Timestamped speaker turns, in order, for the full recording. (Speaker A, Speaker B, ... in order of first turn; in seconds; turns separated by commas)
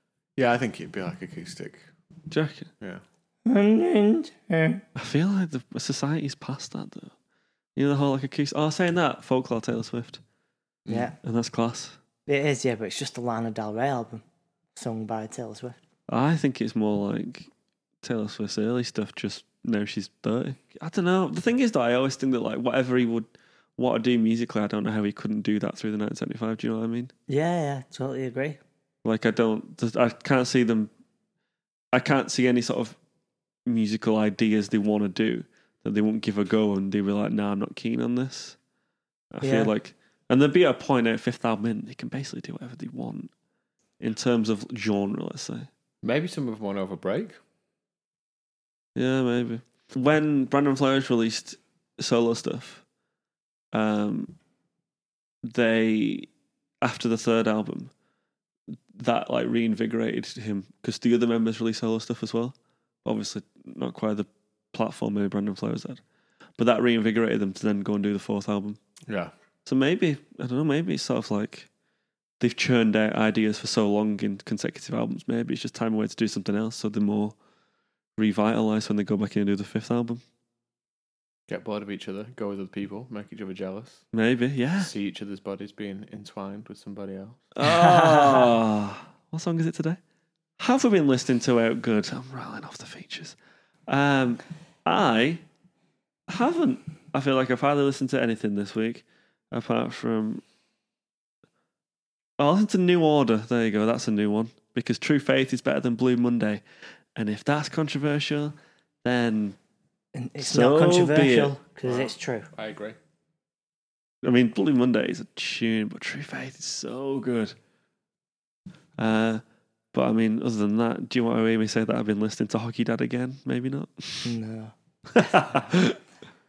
Speaker A: 0.4-1.9, Speaker B: 2.3-2.7, Speaker C: 3.5-4.8, Speaker B: 5.0-7.1, Speaker B: 7.8-10.2, Speaker C: 10.9-11.2, Speaker B: 11.2-12.0, Speaker C: 12.3-14.2, Speaker C: 14.8-15.8, Speaker B: 16.1-17.5, Speaker B: 18.0-27.1, Speaker C: 27.3-28.6, Speaker B: 29.0-30.9, Speaker B: 31.9-33.0, Speaker B: 33.7-38.6, Speaker B: 39.3-43.3, Speaker C: 39.4-39.7, Speaker B: 44.0-45.7, Speaker A: 46.0-47.4, Speaker B: 49.0-52.8, Speaker B: 53.7-54.4, Speaker B: 55.4-56.3, Speaker B: 56.8-57.9, Speaker B: 58.9-66.0, Speaker B: 66.6-68.8, Speaker A: 69.1-69.3, Speaker B: 69.7-71.7, Speaker B: 72.4-77.4, Speaker B: 78.2-80.2, Speaker A: 81.5-84.0, Speaker B: 84.1-84.9, Speaker A: 84.8-87.5, Speaker B: 87.6-90.0, Speaker C: 87.6-88.5, Speaker B: 90.6-93.4, Speaker B: 93.9-95.4, Speaker B: 96.3-100.4, Speaker B: 102.4-106.6, Speaker B: 107.2-108.5, Speaker B: 109.0-109.6, Speaker C: 110.2-112.5, Speaker B: 110.4-111.5, Speaker A: 111.8-113.0, Speaker B: 114.2-117.5, Speaker B: 119.0-119.4, Speaker B: 119.9-124.3, Speaker C: 124.2-125.9, Speaker B: 125.2-126.0